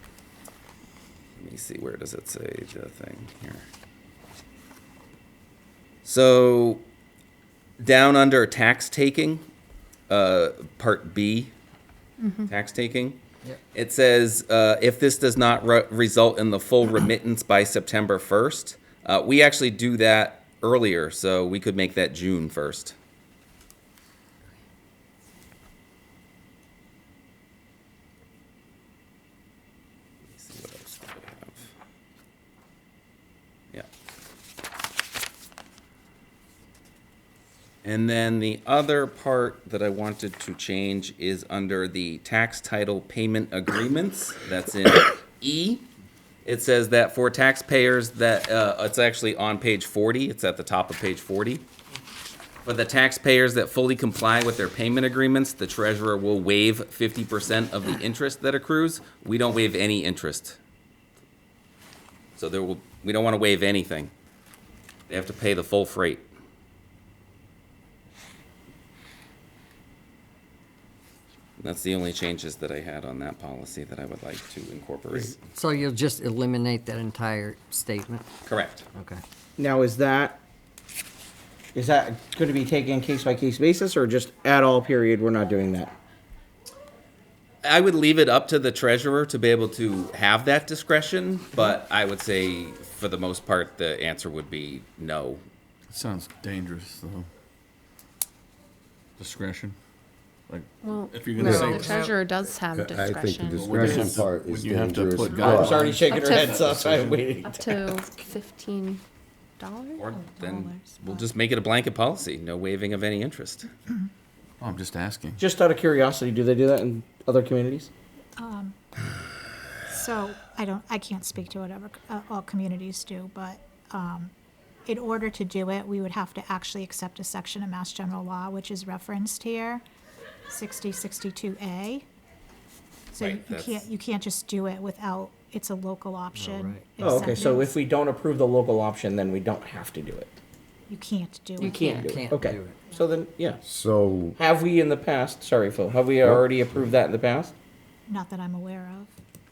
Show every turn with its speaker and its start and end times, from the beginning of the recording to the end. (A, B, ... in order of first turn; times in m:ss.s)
0:01.4-0:03.6 A
0:06.0-0:06.8 A
0:07.8-0:09.4 A
0:10.1-0:11.5 A
0:12.2-0:12.5 B
0:12.5-0:13.2 A
0:13.7-0:23.0 A
0:30.3-0:31.7 A
0:37.8-0:45.8 A
0:46.4-0:51.6 A
0:52.6-1:00.6 A
1:02.4-1:04.1 A
1:05.1-1:06.3 A
1:11.6-1:15.5 A
1:15.5-1:18.2 C
1:18.4-1:18.8 A
1:18.9-1:19.2 C
1:19.6-1:20.4 D
1:21.7-1:25.9 D
1:27.6-1:35.4 A
1:35.9-1:37.3 E
1:39.2-1:39.8 E
1:40.5-1:42.1 E
1:40.8-1:44.2 B
1:41.4-1:41.8 F
1:41.5-1:42.1 C
1:42.7-1:45.8 F
1:43.5-1:47.6 E
1:45.4-1:48.0 D
1:46.1-1:46.6 B
1:47.4-1:49.0 B
1:49.6-1:50.1 B
1:50.0-1:53.7 A
1:50.3-1:51.2 G
1:54.6-1:55.4 E
1:55.4-1:57.9 D
1:58.4-1:58.8 G
1:59.9-2:04.3 G
2:04.8-2:09.8 G
2:10.5-2:12.0 G
2:13.1-2:17.8 G
2:13.1-2:13.9 A
2:16.3-2:17.3 C
2:17.0-2:20.4 D
2:20.9-2:22.0 G
2:21.6-2:22.2 B
2:21.6-2:23.6 D
2:22.0-2:22.7 C
2:23.6-2:24.4 F
2:24.4-2:27.5 D
2:26.2-2:26.9 F
2:28.1-2:29.1 G